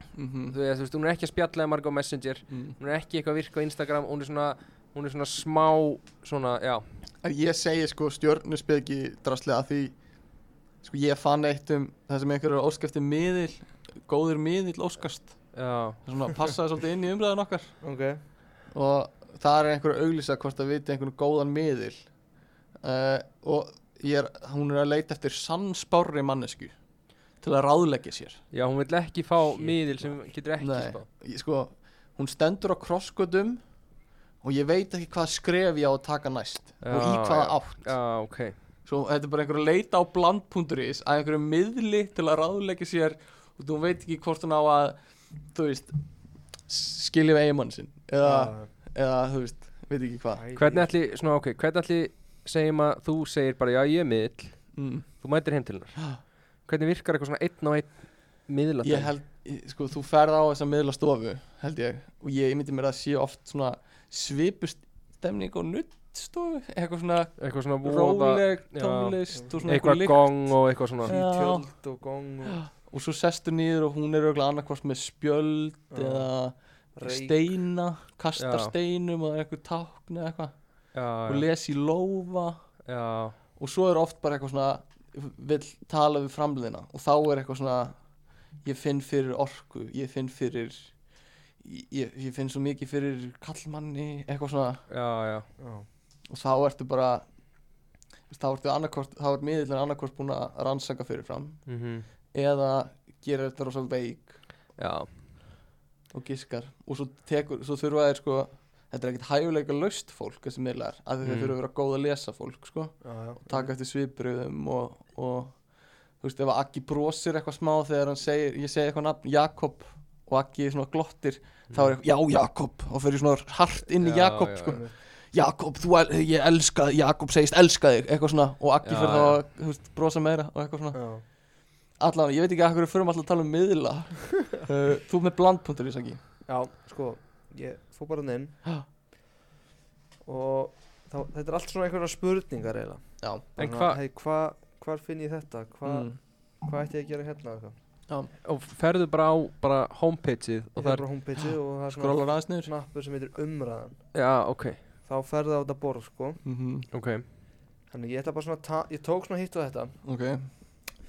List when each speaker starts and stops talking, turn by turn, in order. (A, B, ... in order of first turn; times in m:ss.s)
0:00.1-0:00.6 A
0:00.5-0:06.8 B
0:02.5-0:02.8 A
0:07.2-0:09.9 A
0:10.8-0:15.5 A
0:15.5-0:16.0 B
0:16.0-0:17.7 A
0:17.8-0:18.2 C
0:18.7-0:22.0 A
0:22.8-0:26.7 A
0:27.4-0:28.4 A
0:28.5-0:31.0 B
0:29.6-0:33.6 A
0:34.4-0:38.0 A
0:36.8-0:38.5 B
0:38.8-0:45.0 A
0:45.5-0:46.0 A
0:46.7-0:50.4 A
0:48.2-0:48.7 C
0:50.4-0:50.9 C
0:50.6-0:56.1 B
0:54.8-0:55.1 A
0:56.6-0:59.1 B
0:58.8-1:10.3 A
1:07.4-1:11.1 B
1:09.3-1:09.6 C
1:11.0-1:11.6 A
1:11.0-1:12.6 C
1:12.6-1:20.5 A
1:15.9-1:16.3 C
1:16.9-1:17.4 C
1:18.4-1:18.7 B
1:20.9-1:21.4 B
1:21.2-1:22.6 A
1:22.8-1:23.4 B
1:23.6-1:28.0 A
1:28.6-1:30.9 A
1:31.6-1:34.8 A
1:34.9-1:35.5 B
1:35.6-1:35.8 C
1:36.3-1:37.2 A
1:38.3-1:41.6 A
1:41.7-1:42.0 B
1:42.3-1:44.4 A
1:44.8-1:45.1 B
1:46.1-1:55.6 A
1:51.2-1:51.6 B
1:53.0-1:53.7 C
1:56.2-2:11.0 A
2:04.0-2:04.8 B
2:04.7-2:04.9 C
2:08.8-2:09.4 B
2:10.9-2:11.2 C
2:12.0-2:16.2 A
2:16.5-2:18.6 C
2:20.2-2:27.7 C
2:23.2-2:23.5 A
2:23.6-2:24.0 B
2:25.8-2:26.2 A
2:28.4-2:31.0 B
2:30.8-2:34.0 C
2:31.9-2:32.7 A
2:34.1-2:34.8 B
2:35.0-2:36.4 C
2:36.4-2:36.9 A
2:36.9-2:37.2 B
2:37.9-2:39.9 C
2:40.0-2:40.5 A